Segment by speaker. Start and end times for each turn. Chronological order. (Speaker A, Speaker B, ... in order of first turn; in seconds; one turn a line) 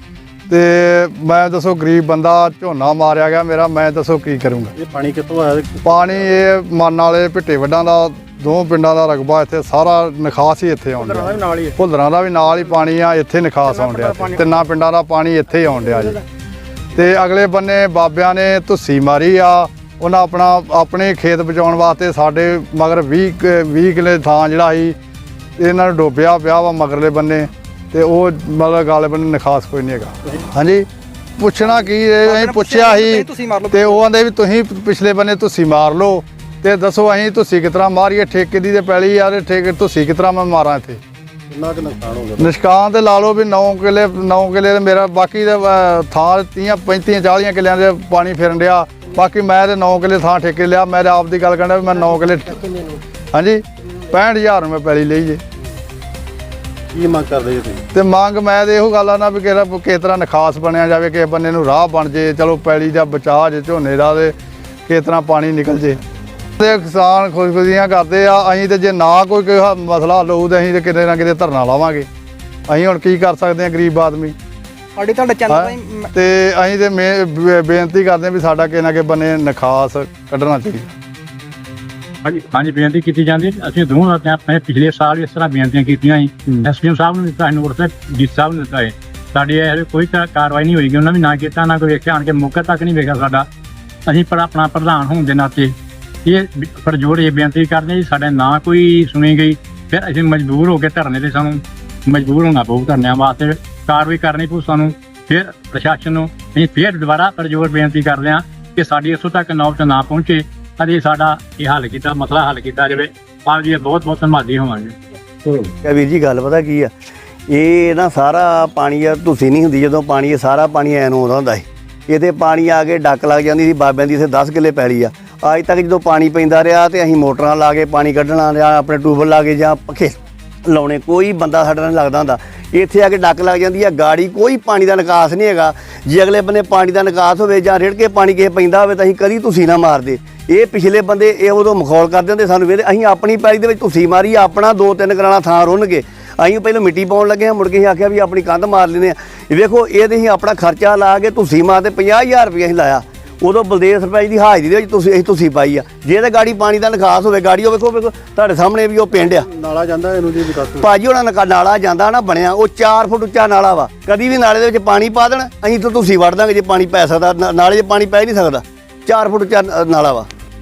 Speaker A: 0.5-4.8
Speaker B: 4.8-6.0
Speaker A: 5.8-16.2
Speaker B: 11.0-11.7
Speaker C: 13.8-14.2
Speaker A: 16.9-25.0
Speaker A: 25.6-41.0
Speaker C: 32.4-33.8
Speaker B: 41.5-42.5
Speaker A: 42.4-52.7
Speaker A: 53.3-55.4
Speaker B: 56.9-57.8
Speaker A: 57.9-64.3
Speaker A: 64.9-66.0
Speaker A: 66.6-72.1
Speaker A: 72.7-74.3
Speaker C: 75.0-76.0
Speaker A: 75.5-80.9
Speaker D: 82.2-93.5
Speaker D: 94.1-115.7
Speaker E: 115.8-116.9
Speaker E: 117.5-159.5
Speaker B: 159.2-160.9
Speaker E: 160.8-170.3